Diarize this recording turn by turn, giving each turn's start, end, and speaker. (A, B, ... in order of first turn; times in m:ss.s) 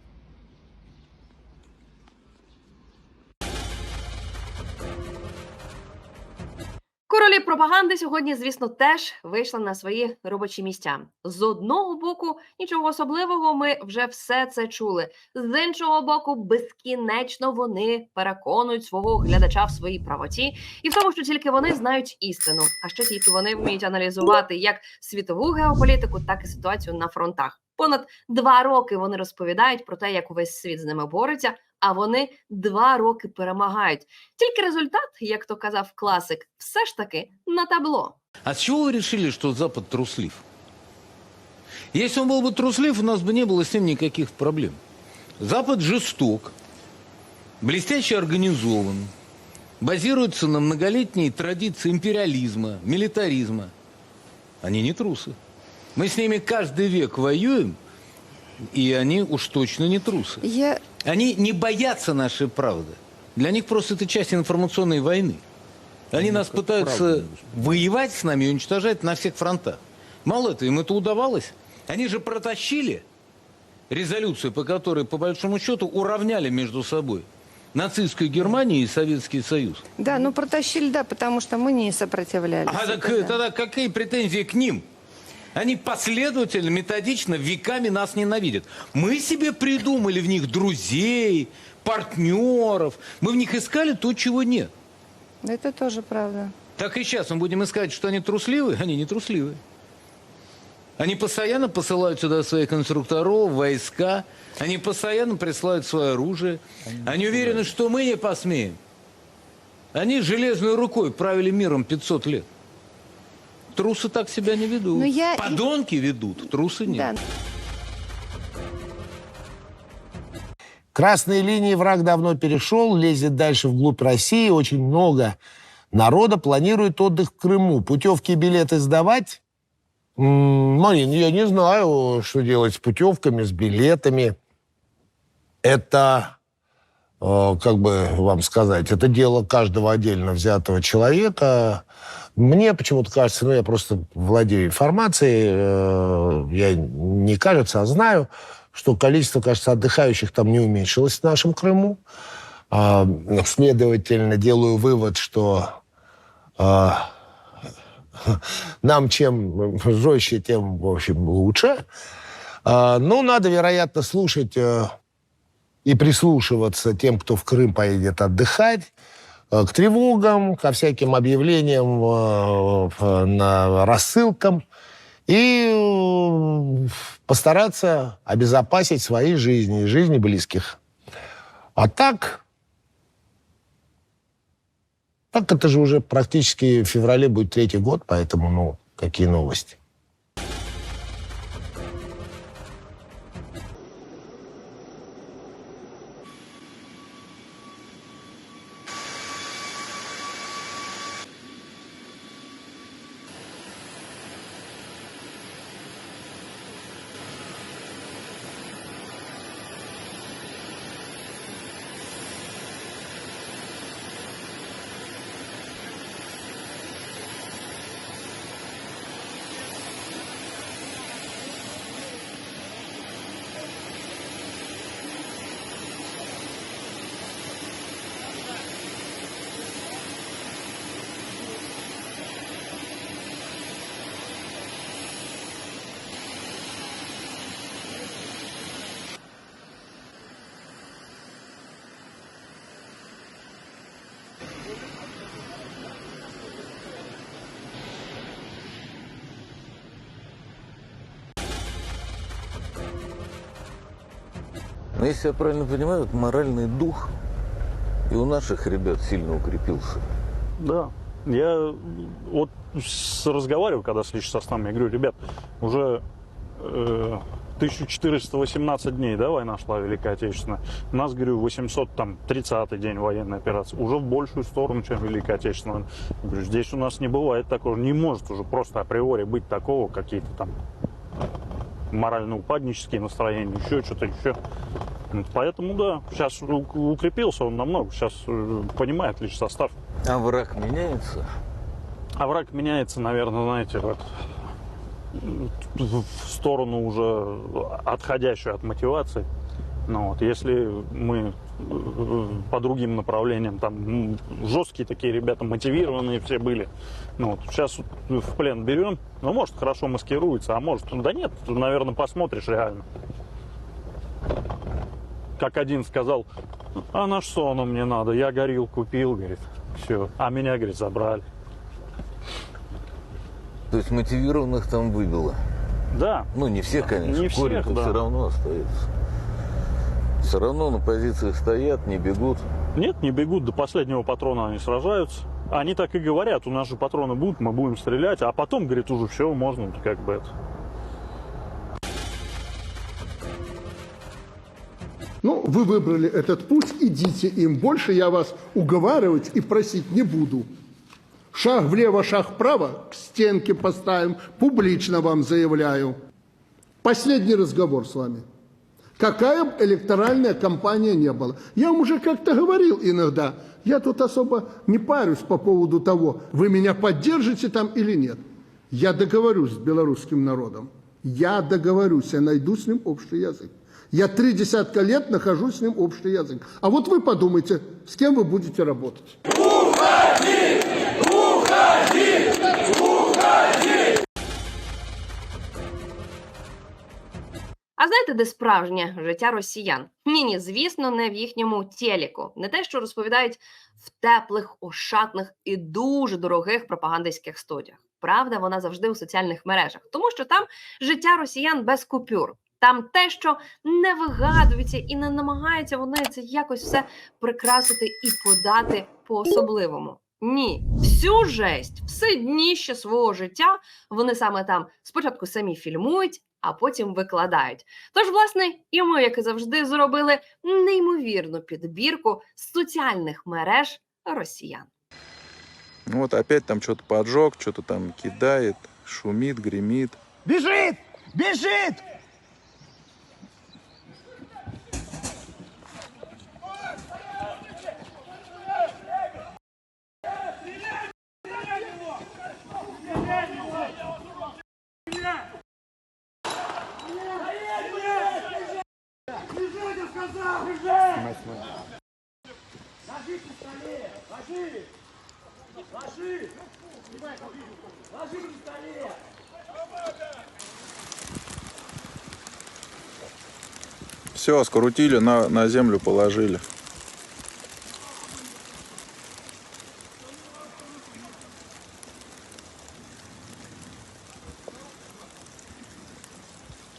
0:07.1-0:38.2 A
0:38.4-0:40.4 B
0:41.9-0:44.8 B
0:45.4-0:46.5 B
0:47.6-0:49.1 B
0:49.8-0:53.7 B
0:54.6-0:55.4 B
0:56.0-0:57.8 B
0:58.6-1:00.4 B
1:00.4-1:00.8 C
1:01.0-1:05.4 B
1:06.1-1:13.0 B
1:13.9-1:19.8 B
1:20.0-1:23.4 C
1:22.6-1:24.8 B
1:25.5-1:34.7 B
1:35.4-1:36.5 C
1:36.8-1:39.6 B
1:41.0-1:48.8 B
1:49.9-1:52.4 B
1:53.7-1:57.2 B
1:55.0-1:55.6 C
1:56.9-1:57.2 C
2:00.9-2:05.4 D
2:05.9-2:09.4 D
2:10.2-2:14.3 D
2:15.6-2:16.4 D
2:17.2-2:21.8 D
2:22.4-2:32.0 D
2:32.7-2:35.8 D
2:36.6-2:37.1 D
2:38.2-2:41.8 D
2:42.6-2:44.9 D
2:45.8-2:48.9 D
2:49.5-2:54.6 D
2:55.3-3:00.8 D
3:01.8-3:02.4 D
3:05.3-3:09.8 D
4:15.0-4:17.1 B
4:18.1-4:20.0 B
4:20.6-4:26.0 E
4:26.6-4:40.5 E
4:41.9-4:44.4 E
4:45.1-4:49.7 E
4:50.0-4:51.2 B
4:52.2-4:54.1 E
4:55.2-4:59.2 E
4:59.9-5:12.8 E
5:15.4-5:16.2 E
5:16.9-5:21.2 E
5:23.7-5:25.4 B
5:25.9-5:28.0 E
5:26.3-5:28.7 B
5:30.2-5:32.4 B
5:32.7-5:40.3 E
5:45.2-5:50.5 F
5:51.3-5:56.0 F
5:56.8-5:58.2 F
5:59.0-6:19.2 F
6:27.8-7:04.7 A
7:05.9-7:10.0 G
7:44.1-7:46.4 G